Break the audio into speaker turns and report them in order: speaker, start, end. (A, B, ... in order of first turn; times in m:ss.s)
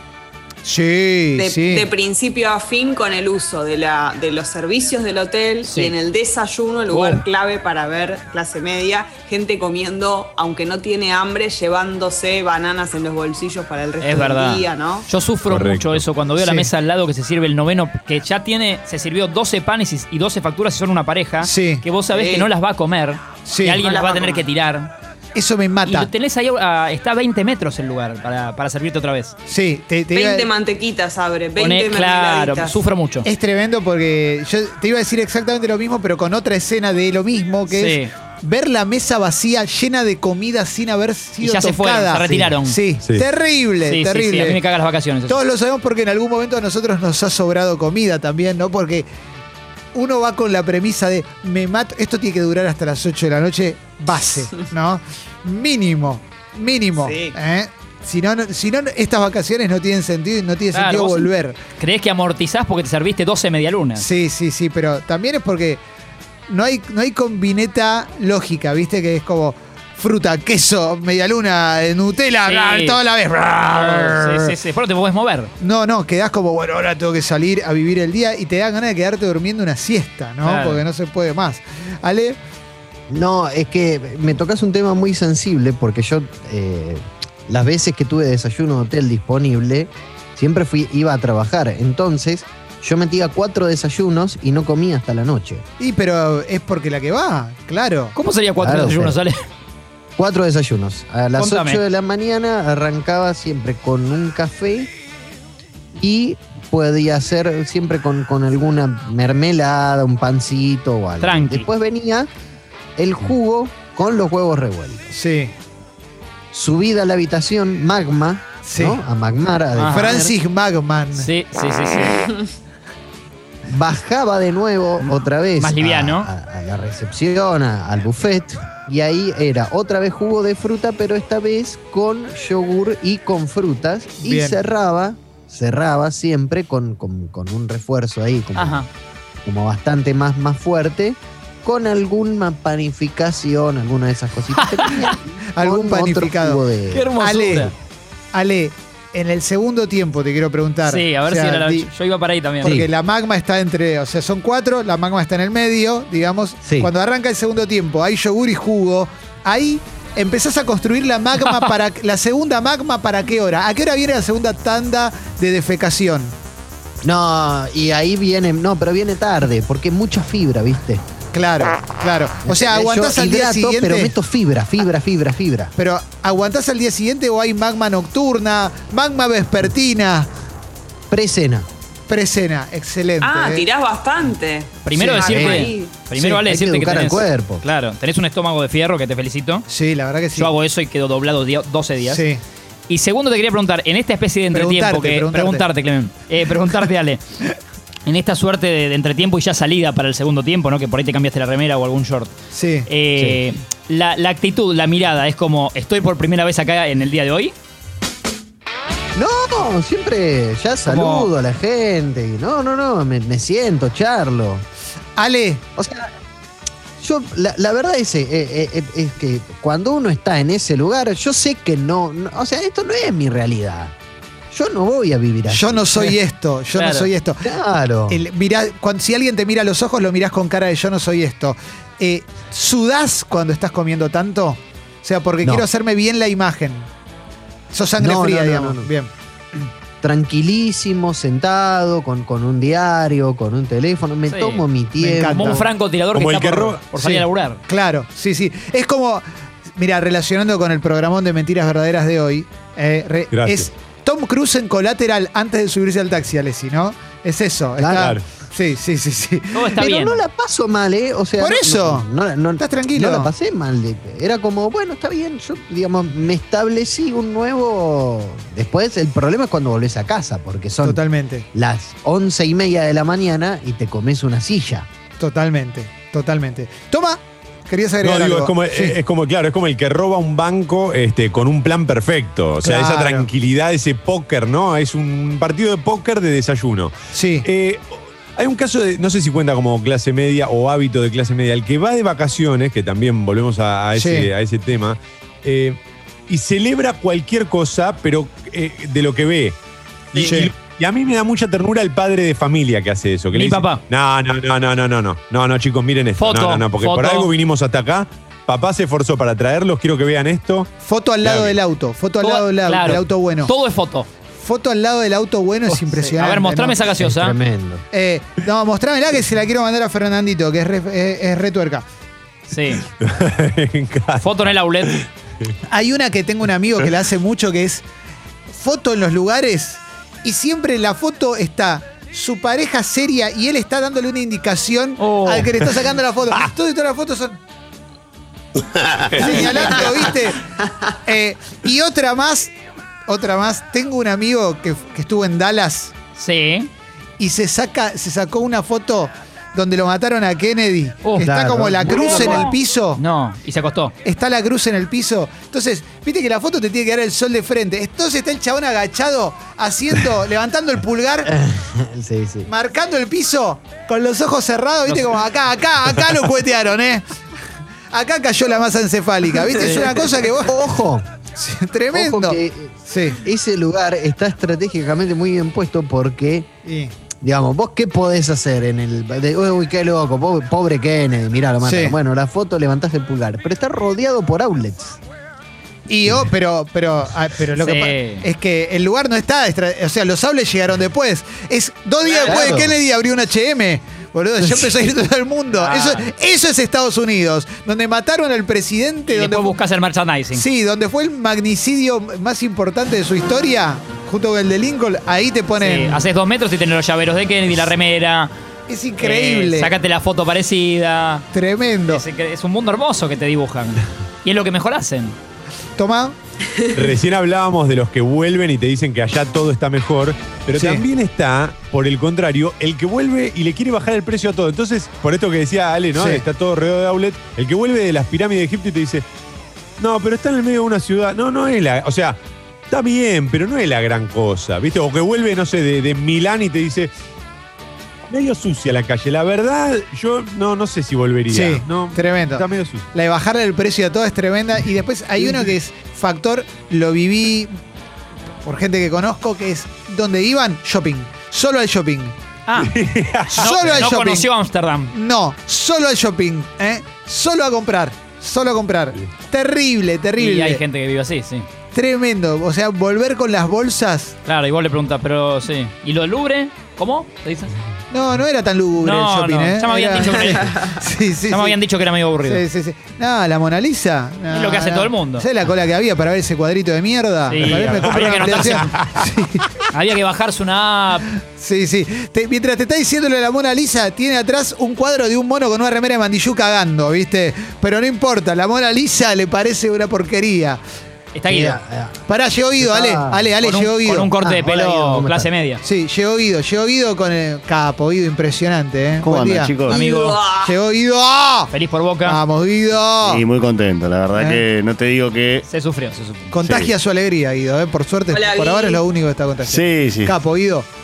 0:00.6-0:01.9 A
0:01.4-0:15.1 B
0:05.6-0:05.9 C
0:06.9-0:07.2 C
0:14.0-0:24.9 C
0:15.5-0:16.0 D
0:16.4-0:16.7 A
0:21.4-0:21.8 A
0:22.1-0:22.5 B
0:23.4-0:23.8 A
0:23.8-0:24.4 B
0:25.4-0:26.1 A
0:25.8-0:29.4 C
0:29.5-0:30.5 A
0:30.1-0:32.8 B
0:31.6-0:33.3 C
0:33.2-0:44.6 A
0:37.7-0:38.1 C
0:41.4-0:42.8 C
0:43.9-0:45.4 C
0:45.3-0:49.1 A
0:49.9-1:01.6 A
0:57.0-0:57.4 B
1:00.7-1:04.0 C
1:04.0-1:05.8 A
1:06.5-1:14.6 A
1:12.4-1:13.0 C
1:13.7-1:15.5 C
1:15.6-1:22.4 A
1:20.4-1:20.8 C
1:23.1-1:35.6 E
1:35.8-1:38.1 A
1:38.2-1:39.4 C
1:38.6-1:39.2 E
1:40.2-1:44.9 E
1:41.4-1:41.8 C
1:46.0-1:52.3 E
1:51.2-1:51.7 C
1:53.0-1:55.1 E
1:55.1-1:55.5 A
1:56.5-2:00.3 E
1:58.6-1:59.0 A
1:59.8-2:00.2 C
1:59.9-2:01.3 A
2:01.2-2:02.3 C
2:03.7-2:18.8 E
2:05.0-2:06.3 C
2:14.2-2:14.6 A
2:18.6-2:18.9 C
2:19.4-2:27.1 E
2:24.6-2:25.2 C
2:25.6-2:26.6 A
2:26.9-2:27.7 C
2:27.2-2:27.7 A
2:28.3-2:31.9 A
2:30.9-2:32.7 C
2:32.6-2:46.3 A
2:32.6-2:32.9 E
2:36.6-2:36.9 E
2:47.0-2:51.0 E
2:51.3-2:54.1 A
2:52.4-2:55.7 E
2:55.8-3:00.3 A
3:01.1-3:01.7 E
3:02.1-3:03.7 A
3:03.2-3:05.9 B
3:04.8-3:09.7 C
3:05.0-3:05.2 A
3:05.2-3:07.6 E
3:09.7-3:10.5 A
3:10.4-3:12.2 C
3:12.0-3:12.4 A
3:12.9-3:17.2 C
3:14.5-3:15.6 A
3:18.1-3:22.3 C
3:22.5-3:22.9 A
3:22.9-3:27.5 C
3:29.2-3:34.6 E
3:30.9-3:31.3 C
3:35.2-3:35.6 A
3:35.8-3:36.1 E
3:37.0-3:43.9 E
3:44.5-3:46.1 E
3:45.5-3:47.5 A
3:46.8-3:47.1 C
3:47.4-3:48.2 E
3:48.1-3:56.9 A
3:57.7-3:59.1 A
3:58.0-3:58.9 E
4:00.0-4:05.7 E
4:04.3-4:04.6 C
4:05.0-4:05.6 A
4:05.2-4:07.6 C
4:06.1-4:06.8 D
4:07.0-4:09.2 A
4:09.8-4:19.7 A
4:13.3-4:13.7 D
4:17.8-4:18.1 E
4:18.0-4:18.2 D
4:19.5-4:20.2 C
4:19.8-4:31.0 E
4:21.4-4:22.1 A
4:22.6-4:23.3 A
4:30.8-4:31.4 A
4:31.5-4:34.9 E
4:35.2-4:39.0 A
4:38.0-4:59.6 D
4:42.6-4:43.3 A
4:47.1-4:47.4 A
4:54.0-4:54.3 A
5:00.1-5:10.7 D
5:00.2-5:00.5 A
5:03.3-5:03.8 C
5:06.2-5:07.3 C
5:10.8-5:13.5 A
5:11.2-5:11.6 D
5:12.2-5:14.1 C
5:14.4-5:16.8 A
5:15.7-5:17.4 C
5:17.0-5:17.8 E
5:17.9-5:21.8 A
5:22.5-5:22.8 C
5:23.0-5:24.3 D
5:24.2-5:25.0 C
5:24.8-5:25.5 D
5:25.7-5:27.8 A
5:28.5-5:37.4 A
5:35.0-5:35.5 C
5:39.1-5:39.8 D
5:39.1-5:40.4 A
5:41.0-5:42.5 A
5:43.1-5:45.9 A
5:46.2-5:46.7 C
5:47.2-5:53.0 A
5:51.0-5:53.9 C
5:51.2-5:52.5 E
5:54.0-6:01.3 A
6:01.2-6:02.5 E
6:02.5-6:07.0 A
6:04.9-6:05.1 C
6:07.9-6:10.5 A
6:10.3-6:11.1 E
6:11.4-6:13.2 A
6:11.9-6:16.5 E
6:16.6-6:16.9 A
6:17.2-6:25.0 E
6:21.6-6:22.0 A
6:25.9-6:39.6 A
6:27.6-6:28.3 C
6:32.2-6:32.8 E
6:34.4-6:34.7 E
6:35.6-6:36.1 C
6:39.1-6:40.4 C
6:40.3-6:46.0 A
6:45.6-6:48.3 C
6:48.7-6:49.7 A
6:49.0-6:51.3 C
6:51.3-6:52.0 A
6:51.9-6:55.1 C
6:55.8-6:56.2 A
6:56.7-7:09.0 D
7:00.6-7:00.8 A
7:05.9-7:06.2 A
7:09.8-7:16.9 D
7:18.1-7:22.9 D
7:21.3-7:27.5 A
7:28.4-7:32.1 A
7:32.5-7:32.7 C
7:32.6-7:33.9 D
7:33.3-7:34.3 A
7:33.4-7:34.9 C
7:34.9-7:40.6 A
7:40.2-7:41.4 C
7:41.7-7:44.1 A
7:44.3-7:47.5 C
7:47.9-7:51.6 A
7:48.8-7:52.4 C
7:52.2-7:59.5 A
7:54.3-7:55.3 C
7:57.3-7:58.9 C
7:57.4-7:59.0 D
7:59.7-8:01.1 C
8:01.4-8:10.6 A
8:11.1-8:11.6 C
8:11.3-8:12.0 E
8:12.1-8:14.1 A
8:12.6-8:13.3 E
8:13.4-8:15.6 C
8:14.2-8:15.3 E
8:15.6-8:19.6 A
8:19.0-8:19.8 F
8:19.7-8:20.2 C
8:19.7-8:20.6 B
8:20.4-8:21.5 A
8:21.5-8:22.2 C
8:22.0-8:23.2 A
8:23.0-8:25.5 F
8:24.2-8:24.4 A
8:25.5-8:26.3 C
8:26.3-8:30.7 A
8:26.4-8:26.7 F
8:28.1-8:28.8 B
8:29.4-8:30.2 F